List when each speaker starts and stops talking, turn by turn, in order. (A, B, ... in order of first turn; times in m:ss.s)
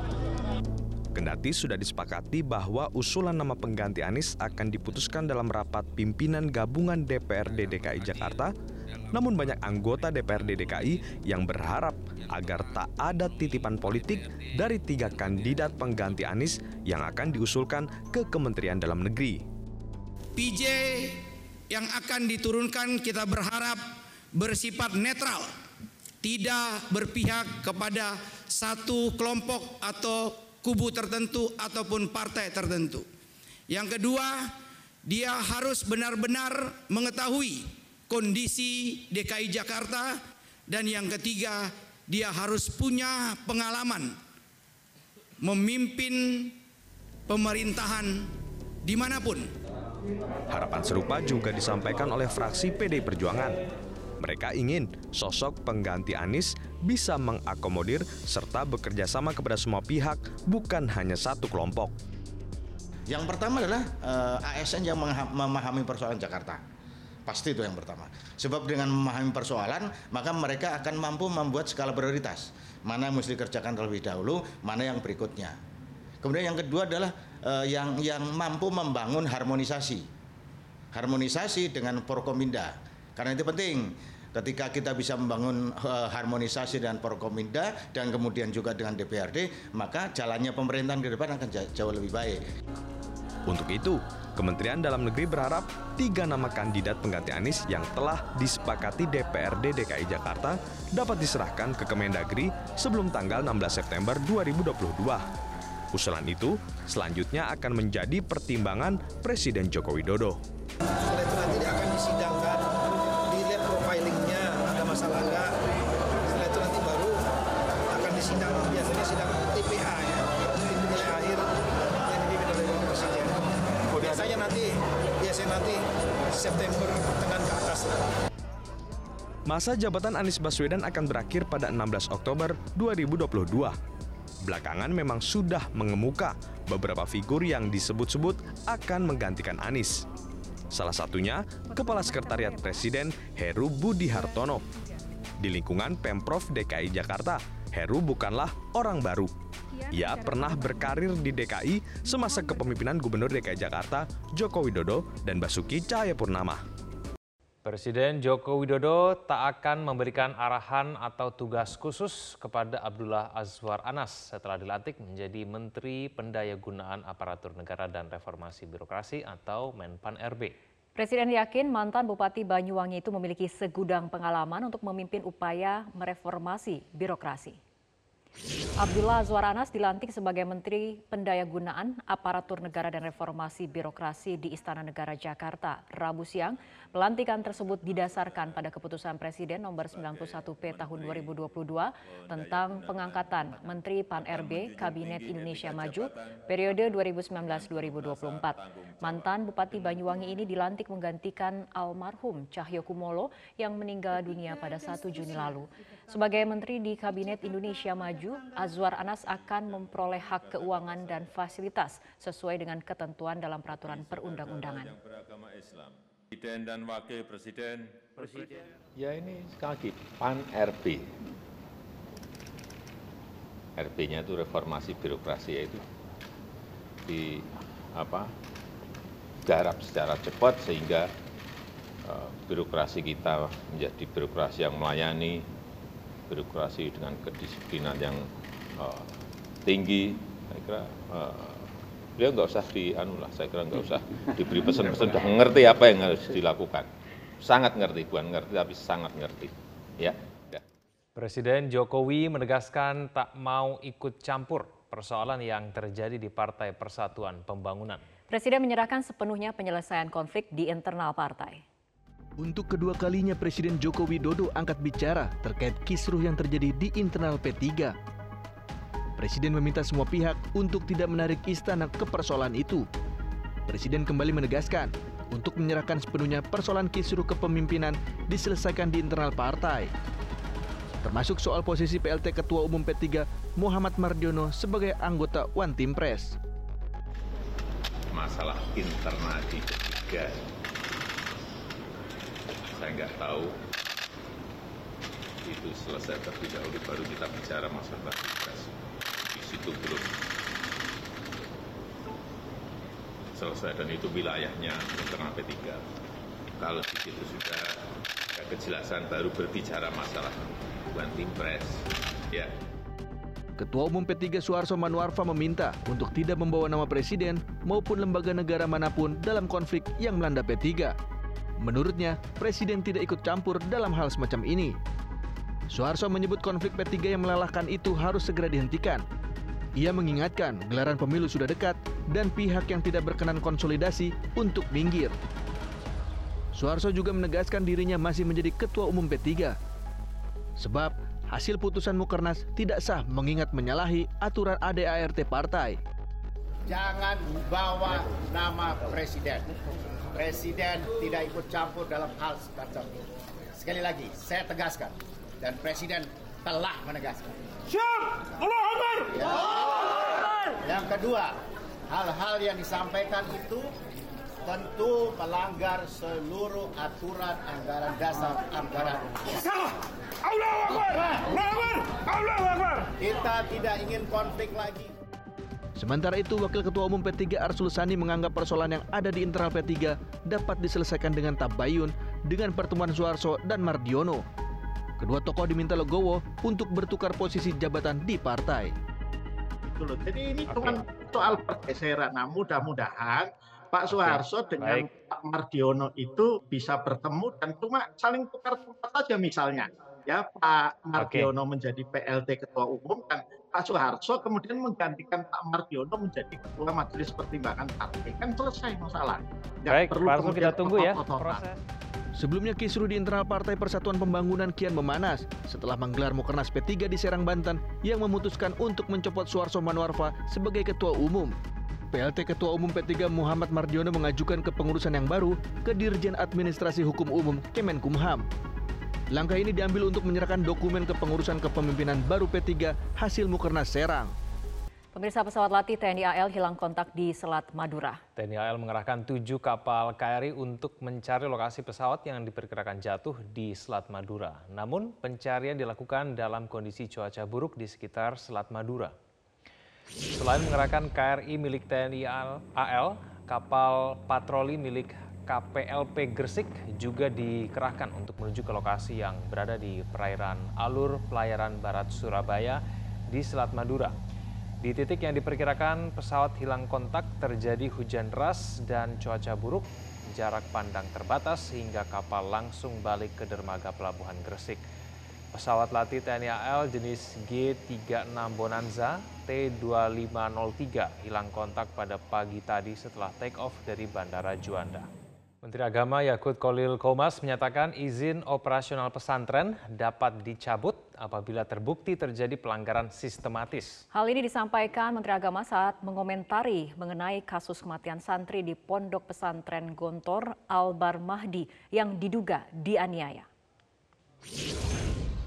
0:01.2-0:08.5 A
0:09.1-0:19.4 A
0:20.4-0:25.5 B
0:26.2-0:33.1 B
0:33.7-0:34.5 B
0:35.0-0:44.2 B
0:45.4-0:46.6 B
0:47.3-0:48.3 B
0:48.8-0:49.5 B
0:50.5-0:53.6 A
0:54.2-1:01.9 A
1:03.1-1:06.6 C
1:07.2-1:15.6 C
1:16.2-1:20.1 C
1:20.9-1:32.4 C
1:33.5-1:45.2 A
1:45.9-1:50.4 A
1:51.0-1:52.6 D
1:53.3-1:55.5 D
1:56.2-1:57.2 D
1:57.9-2:01.4 D
2:02.0-2:03.4 D
2:04.0-2:04.7 D
2:05.2-2:05.8 D
2:06.3-2:08.0 D
2:09.5-2:13.8 A
2:14.4-2:20.0 A
2:20.7-2:24.6 A
2:25.4-2:29.3 A
2:29.9-2:36.6 A
2:37.6-2:50.5 E
2:51.0-2:57.6 F
2:58.8-3:34.9 F
3:15.0-3:15.8 G
3:29.4-3:29.8 H
3:33.9-3:35.8 H
3:36.4-3:37.8 H
3:38.2-3:41.0 G
3:43.8-3:45.8 G
3:47.1-3:48.3 G
3:49.4-3:51.1 G
3:52.0-3:55.4 G
3:56.3-3:58.2 G
3:58.8-3:59.1 G
3:59.6-4:06.9 G
4:07.4-4:10.6 G
4:11.2-4:18.0 E
4:18.3-4:21.6 F
4:22.4-4:27.9 I
4:29.2-4:32.8 I
4:33.7-4:39.9 I
4:41.0-4:46.4 I
4:48.1-4:50.4 G
4:52.7-4:53.5 G
4:55.4-4:58.7 G
4:59.3-5:00.1 G
5:03.3-5:05.8 G
5:06.6-5:07.7 G
5:08.3-5:12.5 G
5:13.6-5:20.9 I
5:21.6-5:24.8 I
5:25.7-5:29.0 I
5:29.8-5:35.2 I
5:36.6-5:39.6 I
5:40.6-5:45.8 I
5:46.7-5:49.5 J
5:50.1-5:57.4 J
5:59.0-6:03.7 J
6:04.4-6:09.4 J
6:11.1-6:12.0 J
6:13.0-6:14.9 J
6:15.8-6:24.2 I
6:25.0-6:28.7 I
6:29.6-6:51.4 K
6:30.5-6:30.8 E
6:33.9-6:34.9 E
6:41.0-6:41.3 E
6:49.7-6:51.6 E
6:52.2-7:01.3 I
7:01.9-7:08.2 I
7:09.1-7:14.1 I
7:14.9-7:18.0 F
7:18.2-7:28.9 E
7:30.1-7:44.0 E
7:44.6-7:54.6 E
7:55.3-8:04.9 E
8:05.4-8:13.8 E
8:13.9-8:23.3 F